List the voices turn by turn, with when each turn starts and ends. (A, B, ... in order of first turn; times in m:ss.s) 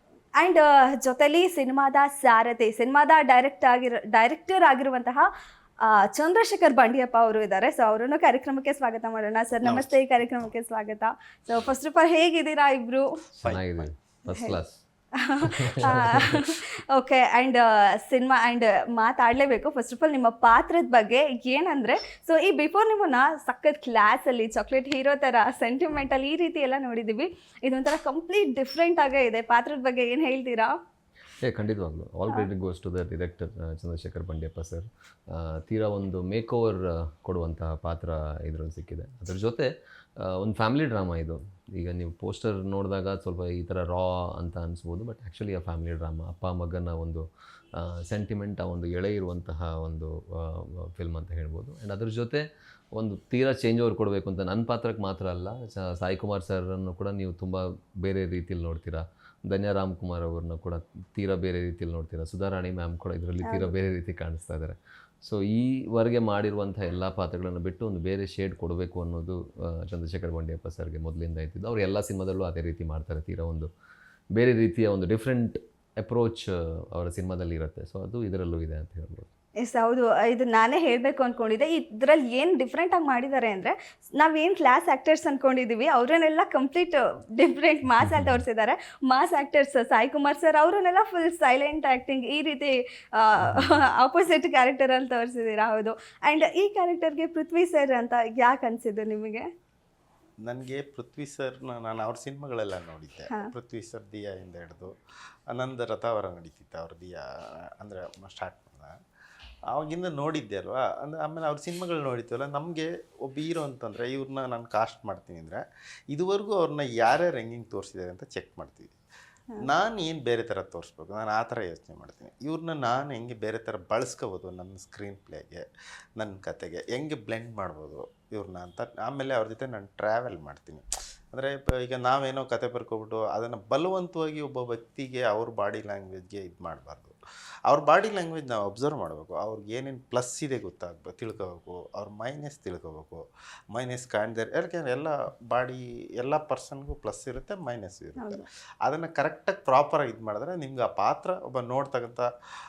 0:00.4-0:05.3 A
0:05.8-0:13.2 A
0:09.6-0:10.5 B
0:13.4-0:13.9 B
0:13.4-0:14.8 C
0:15.2-0:30.8 A
0:15.4-0:16.4 C
0:15.8-0:16.4 B
0:31.4-0:47.2 C
0:47.8-1:13.7 C
1:03.4-1:03.7 A
1:14.3-1:19.3 C
1:19.6-1:39.5 A
1:28.0-1:28.4 C
1:40.4-1:44.9 B
1:45.5-1:47.2 B
1:47.8-1:49.0 B
1:49.7-1:58.9 B
1:59.6-2:05.6 B
2:06.2-2:32.3 B
2:28.2-2:28.4 A